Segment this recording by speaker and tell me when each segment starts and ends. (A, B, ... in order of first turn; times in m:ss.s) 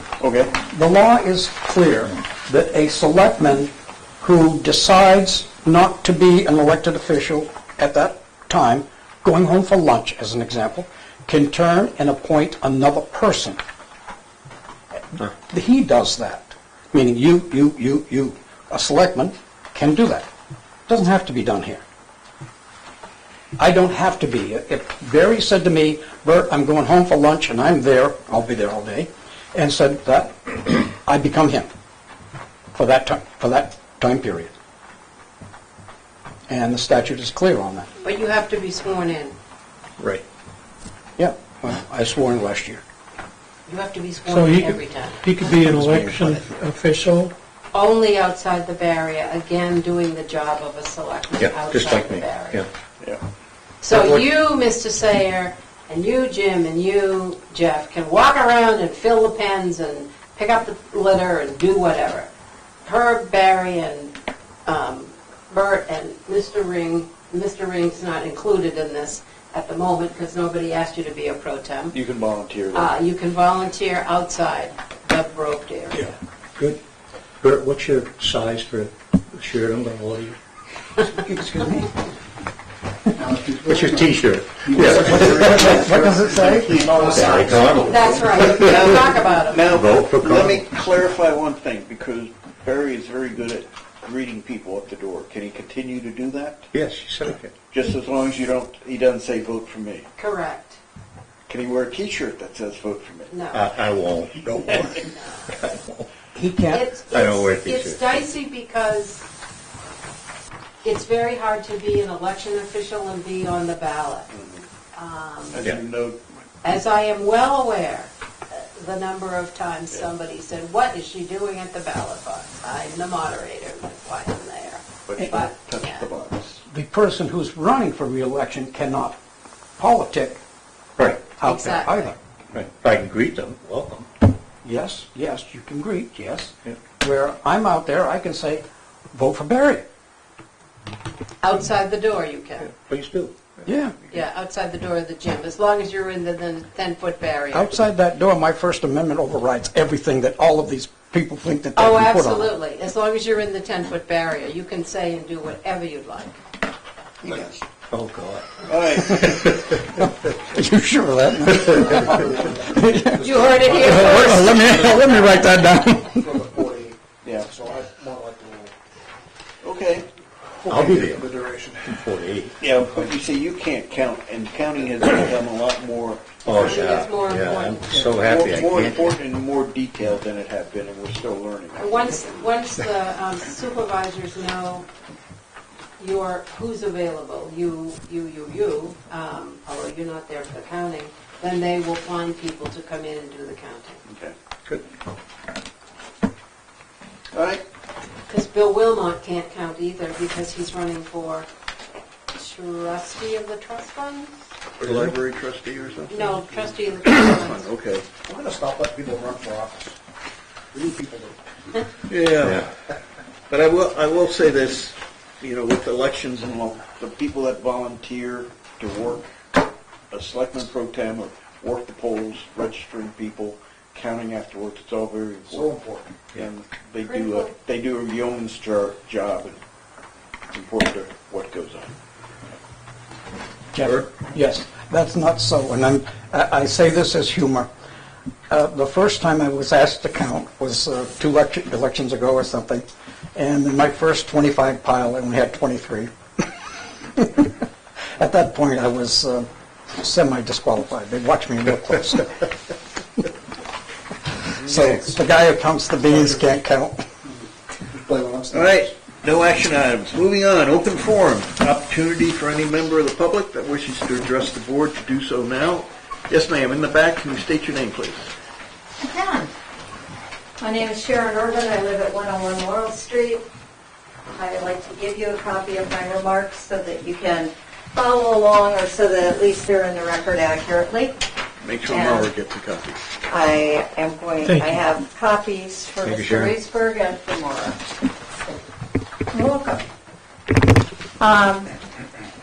0:00.2-0:00.6 A
0:00.6-0:13.6 B
0:15.1-0:20.3 B
0:20.9-0:21.8 B
0:23.6-0:31.7 B
0:32.8-0:34.5 B
0:36.5-0:37.9 B
0:38.0-0:39.4 C
0:41.2-0:42.8 B
0:43.7-0:45.3 C
0:44.3-0:47.3 D
0:45.6-0:46.4 A
0:47.7-0:52.6 C
0:51.4-0:52.7 E
0:53.8-1:02.3 C
0:53.9-0:54.2 E
1:02.8-1:04.1 C
1:04.7-1:12.0 C
1:11.9-1:12.9 A
1:12.7-1:16.1 C
1:17.4-1:20.4 E
1:21.1-1:21.9 B
1:23.2-1:24.2 F
1:23.6-1:26.0 E
1:24.7-1:25.8 F
1:24.8-1:27.4 A
1:24.8-1:27.2 B
1:26.7-1:27.9 F
1:27.0-1:29.0 E
1:27.8-1:29.6 C
1:28.6-1:36.7 A
1:29.6-1:30.7 E
1:36.7-1:37.5 E
1:37.7-1:40.1 A
1:40.2-1:40.8 C
1:41.5-1:43.3 A
1:43.3-1:43.6 C
1:43.5-1:46.1 E
1:45.2-1:45.5 C
1:46.4-1:46.9 B
1:46.7-1:49.3 C
1:47.1-1:48.2 E
1:50.8-1:54.3 C
1:54.3-1:54.6 A
1:54.9-1:55.6 C
1:55.5-1:56.2 A
1:56.6-2:06.1 C
2:05.1-2:06.6 A
2:06.7-2:09.2 B
2:09.8-2:10.4 B
2:11.0-2:11.3 E
2:11.4-2:12.2 B
2:11.4-2:12.2 C
2:12.5-2:14.1 E
2:14.6-2:19.8 B
2:21.4-2:22.7 C
2:22.7-2:23.3 E
2:23.7-2:24.0 B
2:24.1-2:27.7 C
2:27.5-2:32.5 B
2:31.8-2:36.4 C
2:37.9-2:38.5 E
2:38.7-2:39.3 A
2:39.1-2:39.8 E
2:39.1-2:46.5 B
2:41.8-2:45.1 F
2:43.2-2:45.3 C
2:46.1-2:48.7 F
2:47.2-2:47.5 A
2:49.6-2:50.1 A
2:50.6-2:52.1 F
2:50.7-2:51.3 E
2:51.9-2:52.6 E
2:52.6-2:56.8 A
2:56.4-2:59.2 E
2:56.5-2:58.0 C
2:58.1-3:02.0 A
3:01.8-3:04.9 C
3:06.0-3:14.0 C
3:14.1-3:14.3 A
3:17.3-3:17.6 A
3:18.3-3:21.5 C
3:22.3-3:24.3 C
3:24.8-3:28.1 A
3:26.1-3:27.6 C
3:28.2-3:30.0 F
3:30.7-3:31.4 F
3:32.1-3:32.7 A
3:33.5-3:39.3 A
3:40.1-3:45.8 A
3:45.5-3:46.2 F
3:46.3-3:49.6 A
3:50.5-3:51.9 A
3:53.7-3:57.7 B
3:58.5-4:06.1 B
4:07.2-4:07.5 B
4:08.2-4:12.5 B
4:14.6-4:15.0 A
4:14.6-4:17.0 B
4:17.9-4:18.9 F
4:18.5-4:28.3 A
4:29.0-4:29.5 G
4:30.6-4:33.4 G
4:34.3-4:41.2 G
4:41.6-4:43.0 A
4:41.9-4:42.2 G
4:43.3-4:47.8 G
4:44.4-4:44.8 D
4:46.0-4:46.5 E
4:49.3-4:49.8 G
4:51.2-4:51.7 G